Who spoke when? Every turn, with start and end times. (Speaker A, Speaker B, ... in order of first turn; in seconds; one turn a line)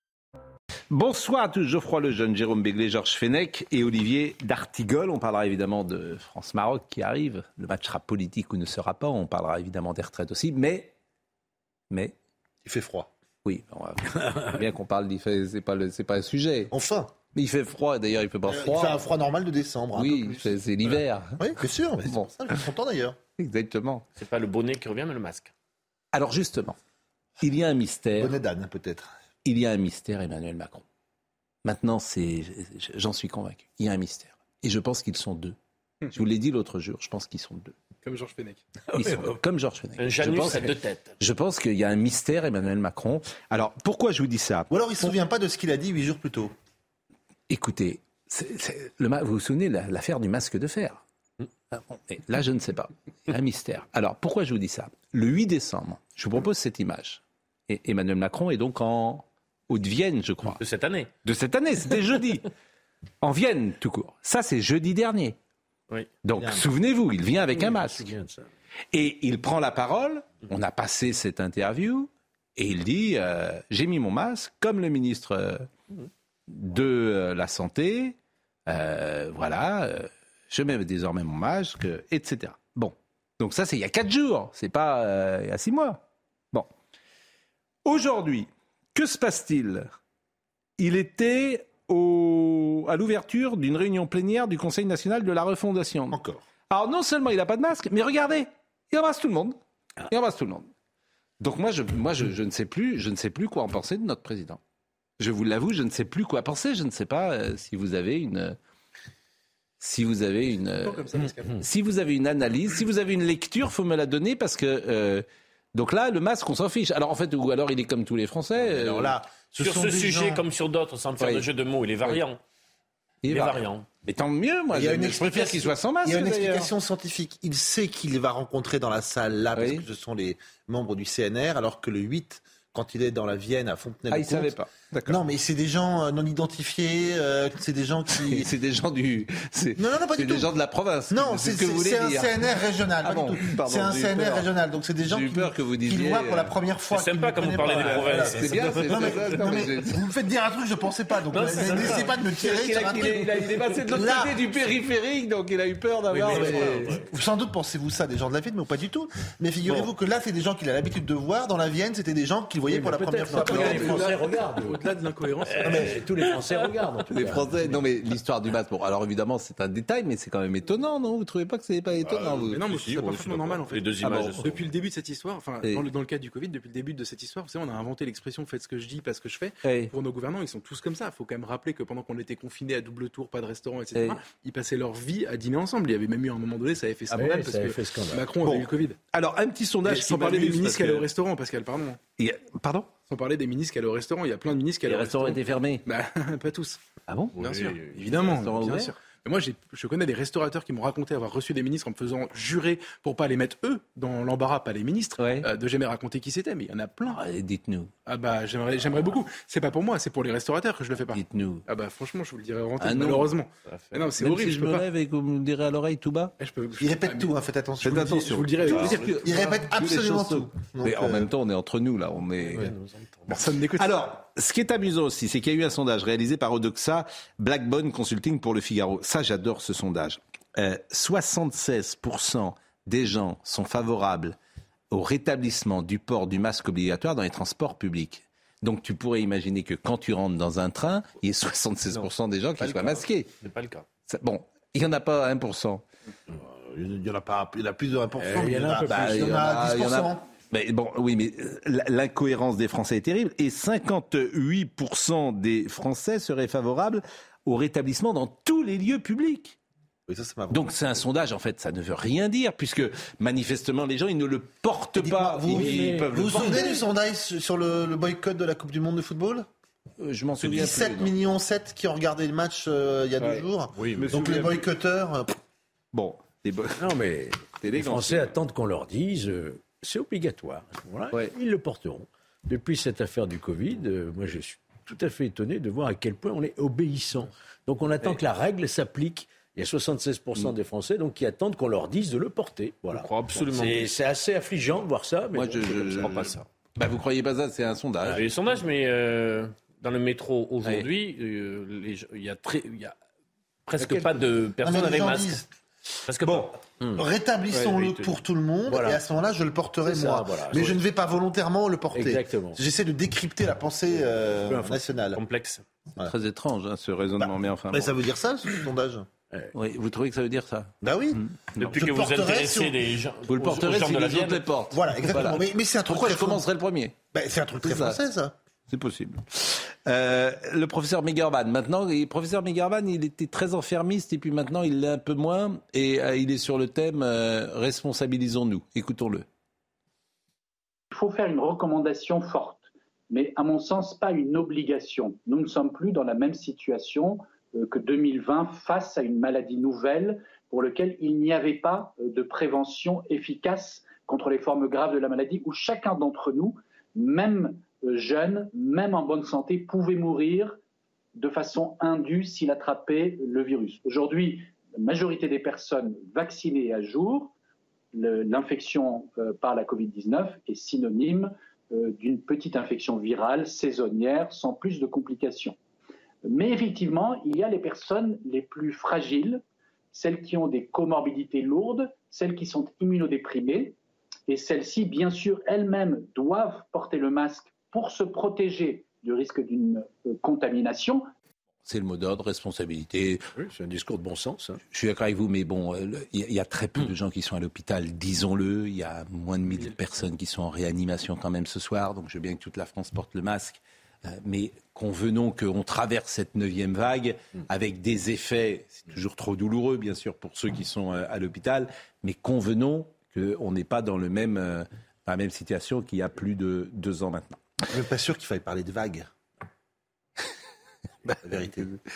Speaker A: 0.9-10.9
Speaker B: 12.6-13.1
Speaker A: 13.4-16.7
Speaker B: 16.7-17.1
Speaker A: 17.3-19.0
Speaker B: 18.5-20.6
Speaker A: 19.9-21.4
Speaker B: 21.4-23.2
Speaker A: 23.4-24.0
Speaker C: 24.2-25.5
Speaker A: 26.1-26.8
Speaker A: 27.4-28.3
Speaker B: 28.2-29.1
Speaker A: 29.4-30.8
Speaker A: 31.6-35.5
Speaker A: 36.1-37.8
Speaker D: 38.0-38.6
Speaker A: 38.9-44.7
Speaker E: 39.0-39.4
Speaker C: 40.0-41.1
Speaker B: 44.7-46.5
Speaker A: 47.5-51.0
Speaker A: 51.7-60.6
Speaker C: 60.6-61.1
Speaker A: 61.2-62.5
Speaker A: 63.2-65.3
Speaker A: 66.2-68.1
Speaker B: 66.4-66.6
Speaker E: 67.5-68.5
Speaker A: 68.9-75.7
Speaker A: 76.5-78.2
Speaker A: 78.7-86.7
Speaker A: 87.8-89.9
Speaker A: 90.8-99.6
Speaker B: 96.1-96.4
Speaker A: 100.1-100.7
Speaker A: 101.4-104.6
Speaker A: 105.2-108.6
Speaker A: 109.8-119.2
Speaker D: 110.8-111.6
Speaker B: 118.6-120.4
Speaker C: 119.6-122.4
Speaker A: 121.2-121.5
Speaker A: 123.2-126.7
Speaker C: 123.3-123.9
Speaker B: 124.7-134.5
Speaker A: 129.5-129.8
Speaker A: 134.1-135.2
Speaker B: 135.1-138.5
Speaker A: 138.2-142.3
Speaker B: 139.8-140.5
Speaker B: 141.1-154.4
Speaker A: 143.0-144.5
Speaker A: 145.0-146.5
Speaker C: 146.9-149.3
Speaker A: 147.8-150.0
Speaker C: 151.3-152.2
Speaker A: 151.5-156.9
Speaker E: 156.1-157.1
Speaker C: 156.3-156.8
Speaker B: 156.3-164.2
Speaker E: 162.7-164.9
Speaker A: 163.3-164.2
Speaker D: 164.6-166.1
Speaker E: 165.4-167.9
Speaker A: 167.1-174.6
Speaker D: 172.0-189.0
Speaker C: 173.7-174.6
Speaker A: 179.6-179.9
Speaker E: 187.1-188.3
Speaker A: 188.4-191.1
Speaker D: 189.8-192.0
Speaker A: 192.2-192.9
Speaker D: 193.1-196.8
Speaker A: 194.9-195.8
Speaker A: 197.1-197.4
Speaker D: 197.3-207.2
Speaker C: 197.4-198.1
Speaker A: 198.2-198.9
Speaker A: 205.2-205.5
Speaker A: 207.1-207.9
Speaker D: 208.1-214.9
Speaker A: 211.1-211.7
Speaker A: 212.8-213.3
Speaker C: 213.7-214.1
Speaker A: 214.2-216.3
Speaker D: 216.4-219.2
Speaker B: 216.8-221.3
Speaker A: 217.8-222.7
Speaker A: 223.3-234.3
Speaker D: 223.3-224.0
Speaker A: 234.9-243.3
Speaker C: 242.6-243.8
Speaker A: 244.1-245.8
Speaker B: 246.7-250.2
Speaker E: 248.2-249.6
Speaker A: 248.8-259.6
Speaker B: 260.1-260.6
Speaker A: 260.5-266.8
Speaker B: 264.9-269.4
Speaker E: 265.4-266.8
Speaker A: 270.0-271.1
Speaker B: 270.4-275.3
Speaker A: 273.9-274.6
Speaker A: 275.9-276.9
Speaker E: 276.8-296.3
Speaker A: 277.5-278.4
Speaker C: 292.9-293.9
Speaker A: 295.3-298.2
Speaker C: 296.0-296.4
Speaker C: 298.1-302.9
Speaker A: 300.6-300.9
Speaker C: 303.7-305.4
Speaker B: 304.6-305.4
Speaker C: 306.1-306.6
Speaker B: 306.2-315.2
Speaker C: 307.6-308.2
Speaker E: 308.7-309.0
Speaker E: 309.8-310.8
Speaker E: 311.9-312.6
Speaker E: 314.5-314.8
Speaker C: 315.1-315.6
Speaker A: 316.0-317.9
Speaker B: 317.2-319.1
Speaker A: 319.5-321.8
Speaker B: 320.8-322.8
Speaker C: 321.6-324.5
Speaker A: 323.3-327.0
Speaker B: 324.7-326.4
Speaker B: 327.1-328.3
Speaker A: 327.6-328.0
Speaker A: 328.7-339.2
Speaker F: 340.9-360.6
Speaker F: 361.2-367.3
Speaker F: 367.9-375.5
Speaker F: 376.2-383.8
Speaker F: 384.3-391.1
Speaker A: 391.6-393.2
Speaker E: 393.4-394.6
Speaker A: 394.7-417.4
Speaker B: 417.7-419.1
Speaker A: 421.0-421.8
Speaker B: 421.2-421.6